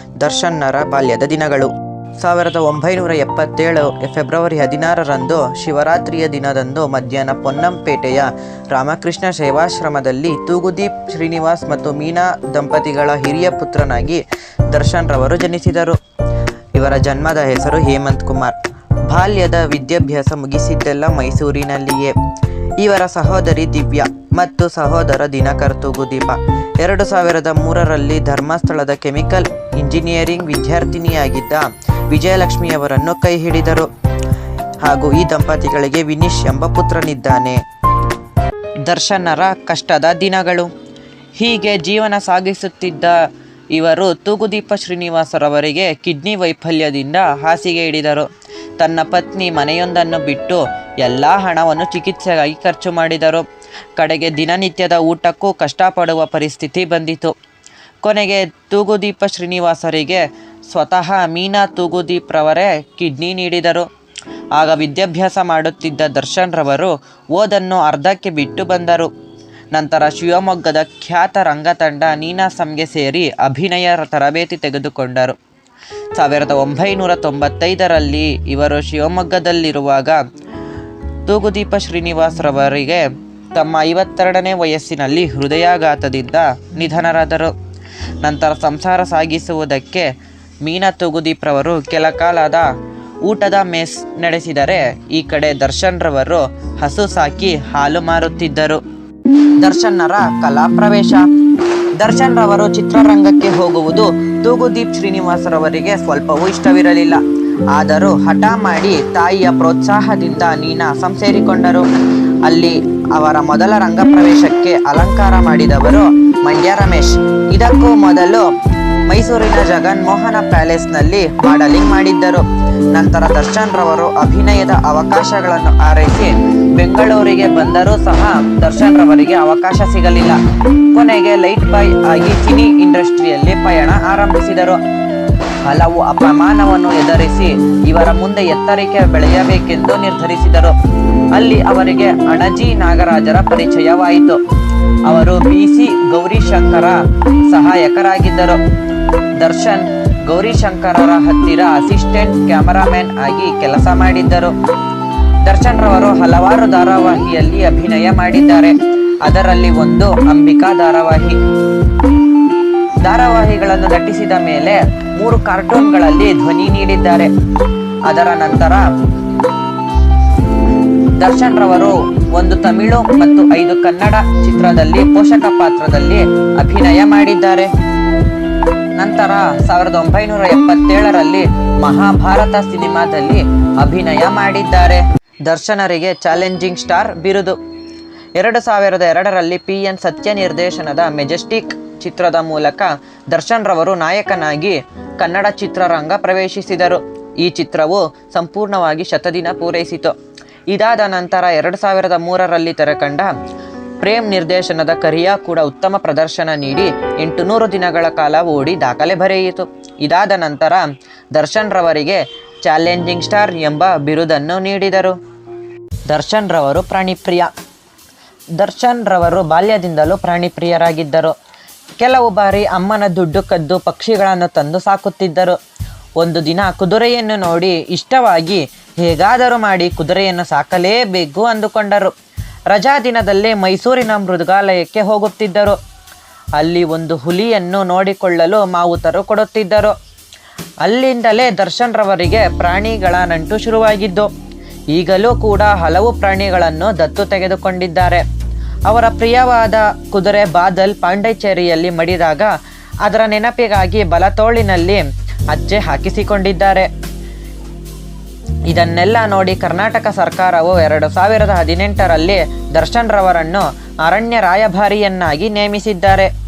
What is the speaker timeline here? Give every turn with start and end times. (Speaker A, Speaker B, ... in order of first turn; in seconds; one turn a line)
Speaker A: 0.2-16.0
Speaker A: 16.7-18.6
Speaker A: 19.1-22.1
Speaker A: 22.8-33.9
Speaker A: 34.8-37.6
Speaker A: 38.8-40.7
Speaker A: 41.4-43.2
Speaker A: 43.7-48.3
Speaker A: 48.8-57.4
Speaker A: 58.0-63.9
Speaker A: 64.5-69.1
Speaker A: 69.7-75.4
Speaker A: 76.1-80.2
Speaker A: 81.2-87.5
Speaker A: 88.2-92.7
Speaker A: 93.2-98.8
Speaker A: 99.6-101.2
Speaker A: 102.0-107.2
Speaker A: 107.7-111.8
Speaker A: 112.4-118.4
Speaker A: 119.1-130.4
Speaker A: 130.9-134.8
Speaker A: 135.6-140.7
Speaker A: 141.3-144.4
Speaker A: 145.0-148.6
Speaker A: 149.4-154.5
Speaker A: 155.4-161.4
Speaker A: 163.0-167.3
Speaker A: 168.1-168.9
Speaker A: 171.2-177.7
Speaker A: 179.0-187.6
Speaker A: 188.3-200.1
Speaker A: 200.7-203.3
Speaker A: 204.0-215.2
Speaker A: 216.1-217.5
Speaker A: 218.6-221.3
Speaker A: 222.0-225.6
Speaker A: 226.2-232.1
Speaker A: 232.7-235.8
Speaker A: 236.6-239.9
Speaker A: 240.8-244.3
Speaker A: 244.9-248.2
Speaker A: 248.9-252.5
Speaker A: 253.0-256.9
Speaker A: 258.7-266.3